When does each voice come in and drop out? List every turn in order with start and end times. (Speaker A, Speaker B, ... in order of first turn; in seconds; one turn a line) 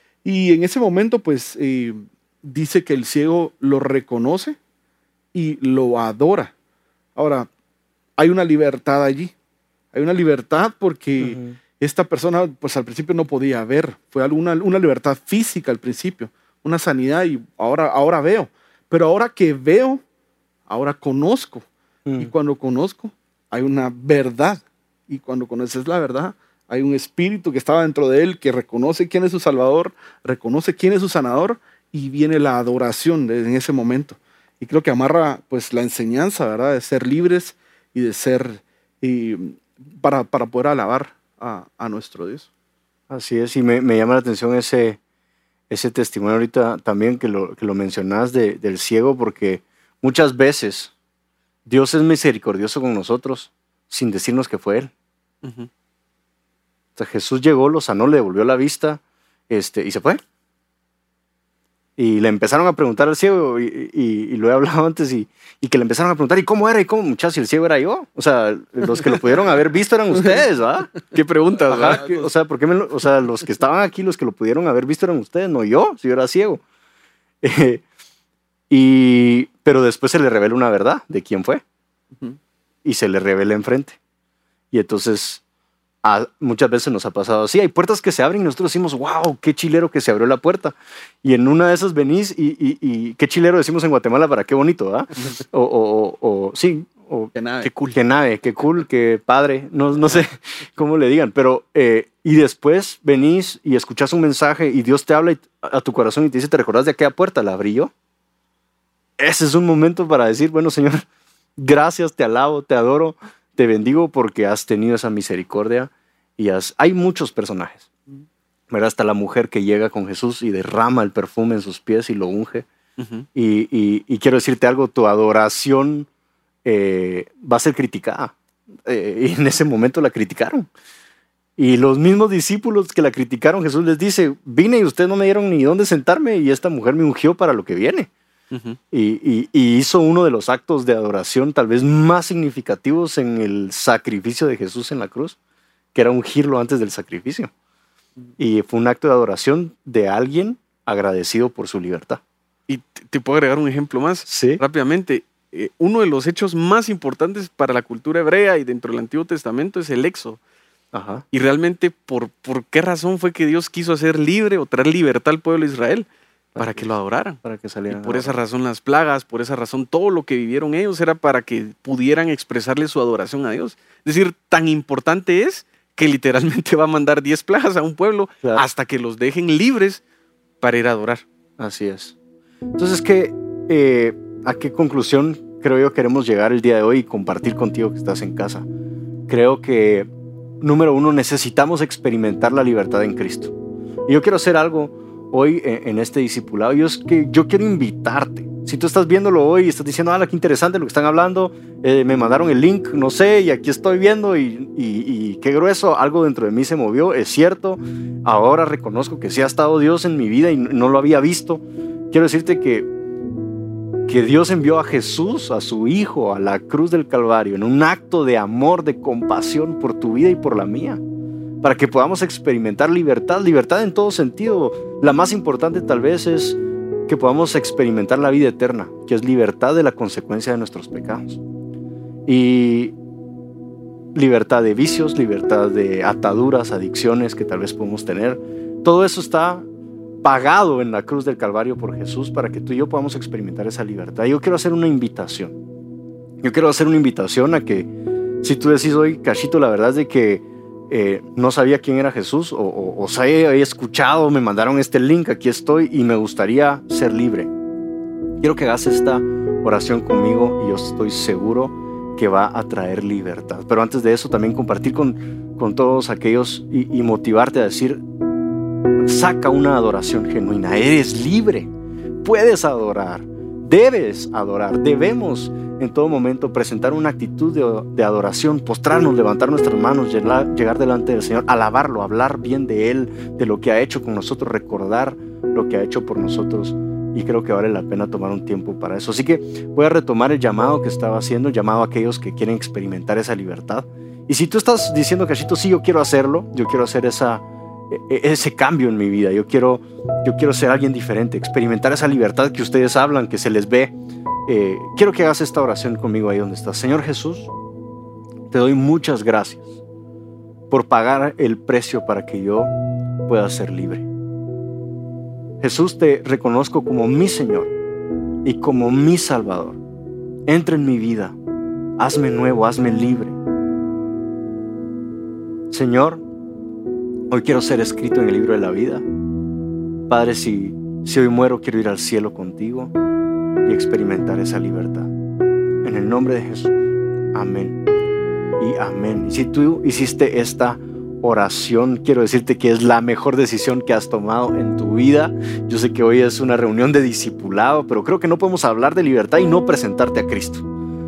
Speaker A: 0.2-4.6
Speaker A: 5.3-6.5
Speaker A: 7.2-7.5
Speaker A: 8.2-9.3
Speaker A: 9.9-20.0
Speaker B: 11.2-11.6
Speaker A: 20.7-21.6
Speaker B: 22.1-22.3
Speaker A: 22.2-42.5
Speaker B: 43.1-45.0
Speaker B: 45.7-50.9
Speaker B: 51.7-54.9
Speaker C: 55.4-55.7
Speaker B: 57.0-60.2
Speaker B: 62.0-71.0
Speaker C: 71.1-72.1
Speaker B: 71.7-76.6
Speaker A: 71.8-72.2
Speaker B: 77.4-77.8
Speaker B: 78.7-81.6
Speaker B: 82.8-84.0
Speaker B: 84.7-85.4
Speaker B: 86.0-97.3
Speaker A: 97.3-97.7
Speaker C: 97.6-98.0
Speaker B: 97.9-107.9
Speaker B: 109.2-111.1
Speaker B: 111.6-117.9
Speaker B: 118.7-122.7
Speaker C: 123.0-123.3
Speaker B: 123.3-126.1
Speaker B: 126.7-130.7
Speaker B: 131.6-138.1
Speaker C: 138.5-138.8
Speaker B: 138.9-145.4
Speaker B: 145.9-147.5
Speaker B: 148.4-152.2
Speaker C: 152.7-160.4
Speaker B: 154.3-154.6
Speaker B: 160.9-161.2
Speaker C: 161.3-180.0
Speaker B: 166.6-168.3
Speaker C: 180.6-181.2
Speaker B: 181.6-182.2
Speaker B: 182.8-188.7
Speaker B: 189.3-190.1
Speaker B: 190.6-193.5
Speaker B: 194.1-212.9
Speaker B: 214.1-221.0
Speaker B: 221.6-231.4
Speaker B: 232.3-232.9
Speaker B: 234.2-239.7
Speaker B: 240.2-245.6
Speaker B: 246.4-247.9
Speaker B: 248.4-257.5
Speaker B: 258.4-268.0
Speaker B: 269.0-271.7
Speaker B: 272.2-303.9
Speaker B: 304.5-307.5
Speaker B: 308.5-309.8
Speaker B: 310.7-312.7
Speaker B: 313.3-314.1
Speaker B: 315.6-317.7
Speaker B: 318.4-319.8
Speaker B: 320.5-321.4
Speaker B: 322.0-323.4
Speaker B: 325.7-326.2
Speaker B: 327.3-329.1
Speaker B: 330.1-332.9
Speaker B: 333.6-335.1
Speaker B: 335.8-337.8
Speaker B: 338.6-350.7